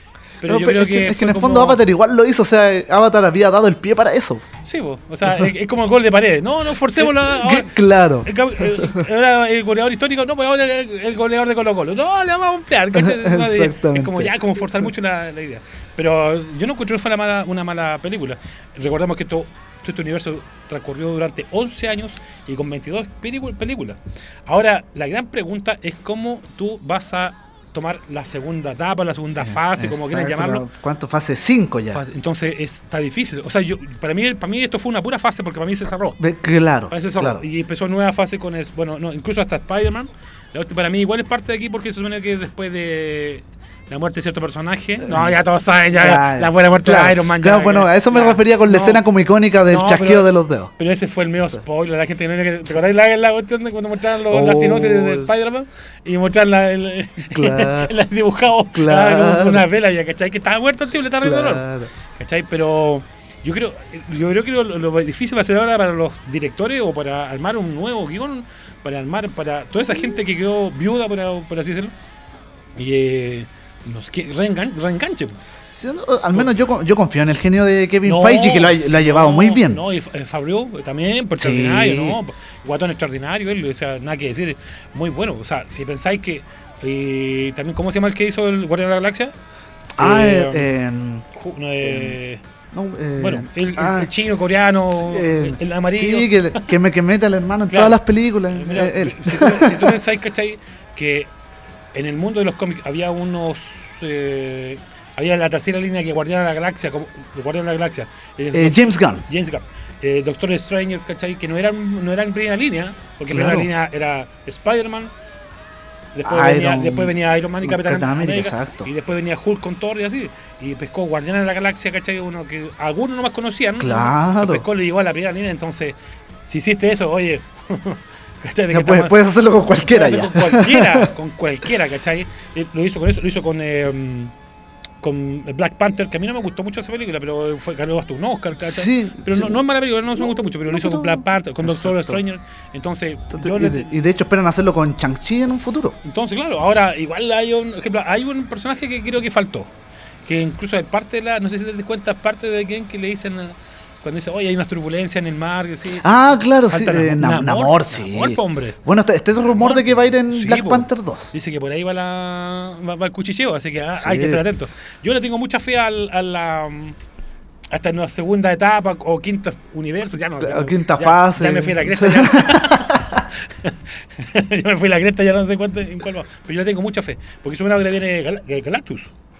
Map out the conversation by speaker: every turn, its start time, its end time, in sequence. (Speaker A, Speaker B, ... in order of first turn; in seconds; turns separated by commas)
Speaker A: 0.4-1.8, Speaker B: 0.4-4.5, Speaker A: 4.6-7.7, Speaker B: 7.0-9.0, Speaker A: 8.2-30.6, Speaker B: 12.9-14.3, Speaker B: 29.4-32.0, Speaker A: 31.9-36.2, Speaker B: 36.2-37.4, Speaker A: 36.9-49.0, Speaker B: 45.0-50.7, Speaker A: 49.7-71.9, Speaker B: 54.3-55.3, Speaker B: 57.3-57.9, Speaker B: 58.7-59.7, Speaker B: 61.2-61.9, Speaker A: 72.8-75.4, Speaker B: 75.7-79.8, Speaker A: 78.0-89.3, Speaker B: 81.3-82.2, Speaker B: 90.0-91.2, Speaker A: 90.0-90.7, Speaker A: 91.3-92.4, Speaker B: 91.8-92.2, Speaker B: 92.7-94.1, Speaker A: 93.2-96.7, Speaker B: 94.9-100.0, Speaker A: 97.7-101.3, Speaker A: 101.9-115.1, Speaker B: 108.5-109.2, Speaker B: 113.3-113.7, Speaker A: 116.1-125.9, Speaker B: 116.2-118.9, Speaker B: 123.8-124.6, Speaker A: 126.5-129.2, Speaker B: 128.7-131.1, Speaker A: 129.8-134.3, Speaker A: 135.0-144.0, Speaker B: 138.6-139.6, Speaker B: 140.1-142.2, Speaker B: 143.3-146.0, Speaker A: 146.0-149.7, Speaker A: 150.2-156.1, Speaker B: 156.0-161.3, Speaker A: 156.7-158.8, Speaker A: 159.4-166.9, Speaker B: 163.9-164.4, Speaker A: 167.7-179.1, Speaker B: 170.4-173.2